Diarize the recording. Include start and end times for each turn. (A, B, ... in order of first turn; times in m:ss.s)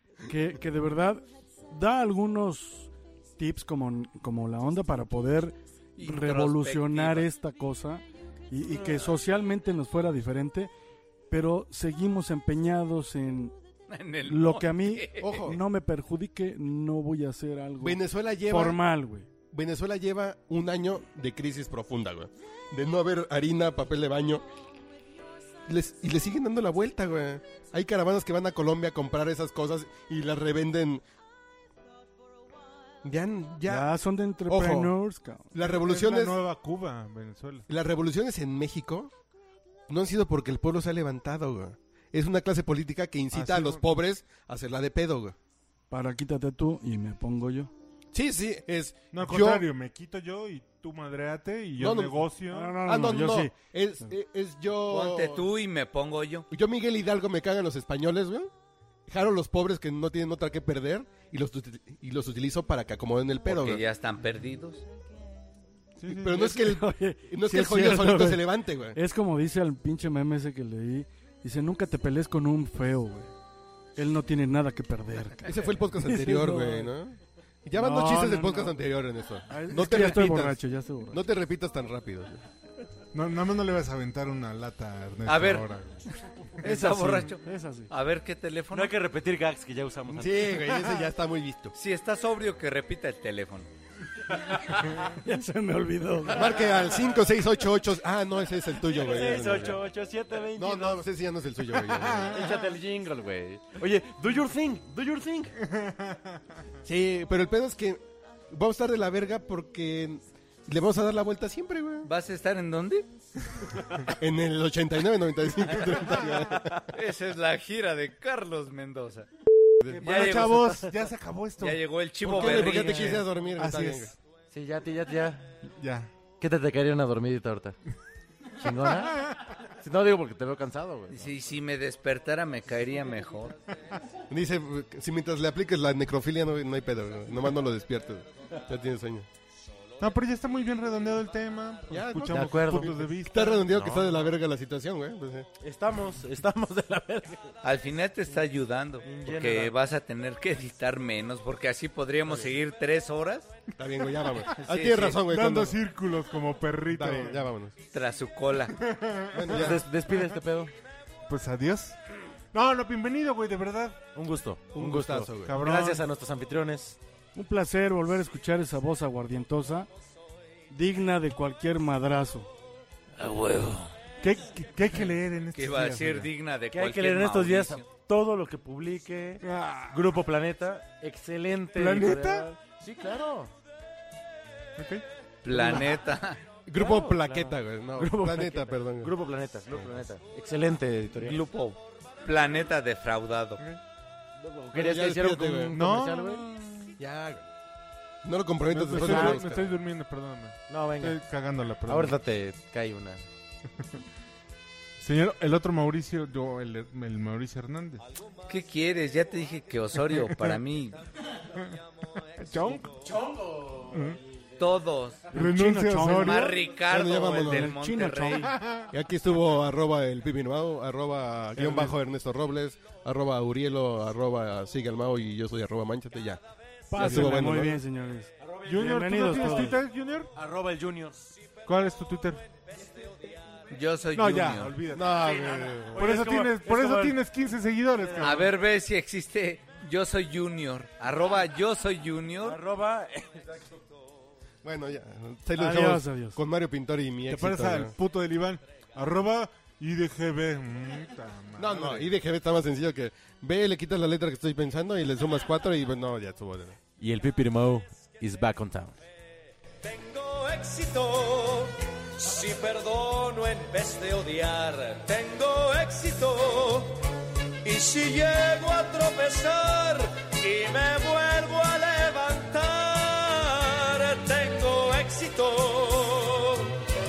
0:00.3-0:10.7 A
0:06.0-0:07.3 B
0:08.7-0:09.1 C
0:11.3-0:13.5 A
0:13.9-0:15.4 B
0:14.3-0:19.3 A
0:15.2-0:15.6 D
0:17.8-0:18.8 D
0:19.5-0:24.4 D
0:25.7-0:31.0 D
0:33.0-0:33.9 D
0:33.7-0:35.7 A
0:34.5-0:34.9 D
0:35.5-0:36.4 D
0:35.7-0:37.7 E
0:37.7-0:39.1 D
0:39.9-0:45.4 D
0:43.3-0:43.8 E
0:45.9-0:47.7 A
0:48.1-0:49.7 D
0:49.1-0:52.8 E
0:51.8-0:52.2 D
0:52.5-0:53.5 A
0:52.8-0:55.5 D
0:54.9-0:56.5 B
0:56.5-0:58.5 D
0:59.1-1:03.8 D
1:03.5-1:04.8 B
1:06.0-1:06.5 E
1:06.1-1:09.0 D
1:06.3-1:13.3 A
1:14.0-1:16.9 A
1:15.4-1:22.4 D
1:17.8-1:18.8 A
1:19.5-1:21.2 A
1:23.1-1:26.0 E
1:25.3-1:29.0 B
1:26.6-1:27.0 E
1:26.6-1:27.9 A
1:28.7-1:30.6 C
1:30.1-1:31.8 D
1:31.8-1:33.7 B
1:34.8-1:36.6 A
1:36.3-1:39.8 D
1:38.9-1:41.1 C
1:40.6-1:42.5 D
1:41.8-1:42.7 E
1:42.2-1:45.6 C
1:45.6-1:46.4 E
1:46.8-1:52.1 D
1:52.0-1:53.1 B
1:54.1-1:56.8 D
1:56.1-1:56.5 E
1:56.9-1:59.3 B
1:59.9-2:04.2 E
2:00.0-2:00.8 B
2:00.0-2:01.0 C
2:01.6-2:03.2 B
2:02.2-2:04.1 D
2:02.3-2:03.1 C
2:04.5-2:05.6 C
2:05.6-2:06.1 E
2:06.4-2:07.8 C
2:08.6-2:11.3 C
2:11.1-2:13.6 B
2:14.3-2:19.3 D
2:20.0-2:23.6 E
2:21.9-2:25.5 D
2:22.3-2:24.2 C
2:25.6-2:27.6 C
2:27.6-2:33.5 B
2:29.0-2:29.7 C
2:33.8-2:35.8 D
2:34.6-2:35.2 B
2:35.2-2:37.5 E
2:36.9-2:37.7 D
2:37.9-2:38.8 B
2:38.8-2:40.2 E
2:39.3-2:39.8 D
2:39.5-2:40.7 C
2:41.3-2:42.0 E
2:42.5-2:44.0 E
2:44.2-2:47.0 C
2:44.7-2:45.6 D
2:45.4-2:46.0 E
2:47.4-2:49.9 A
2:50.7-2:52.5 A
2:53.2-2:53.9 B
2:54.2-2:56.3 E
2:55.5-2:57.9 B
2:56.7-3:03.5 C
2:59.4-3:00.1 E
3:01.7-3:02.5 E
3:04.8-3:05.0 E
3:05.4-3:06.4 B
3:05.5-3:06.0 C
3:06.7-3:09.1 D
3:06.8-3:11.4 C
3:11.2-3:13.6 B
3:14.4-3:16.9 C
3:14.7-3:15.8 D
3:15.7-3:16.5 E
3:17.0-3:17.5 D
3:18.2-3:19.8 D
3:18.7-3:22.2 E
3:19.0-3:19.6 C
3:20.7-3:21.2 C
3:21.8-3:23.2 C
3:25.0-3:28.0 E
3:28.5-3:31.0 B
3:30.1-3:30.6 E
3:32.4-3:33.0 E
3:32.6-3:34.5 C
3:33.9-3:34.2 E
3:34.6-3:35.3 B
3:35.3-3:36.6 A
3:35.3-3:36.6 E
3:36.0-3:38.6 B
3:36.9-3:37.7 D
3:37.5-3:38.6 A
3:38.4-3:38.9 E
3:38.9-3:46.4 D
3:41.6-3:41.9 E
3:46.9-3:49.8 A
3:47.0-3:47.8 D
3:47.0-3:47.5 E
3:48.4-3:49.8 C
3:48.7-3:50.3 E
3:50.4-3:51.3 C
3:51.7-3:52.4 E
3:53.7-3:54.8 B
3:54.1-3:58.5 E
3:54.9-3:56.2 D
3:55.2-3:57.0 C
3:56.6-3:57.2 A
3:57.9-3:58.4 C
3:58.2-4:02.6 B
4:02.4-4:03.8 C
4:04.6-4:08.0 D
4:05.6-4:06.4 A
4:07.3-4:12.1 E
4:11.6-4:16.8 D
4:17.0-4:19.0 C
4:19.8-4:27.0 F
4:27.6-4:36.8 F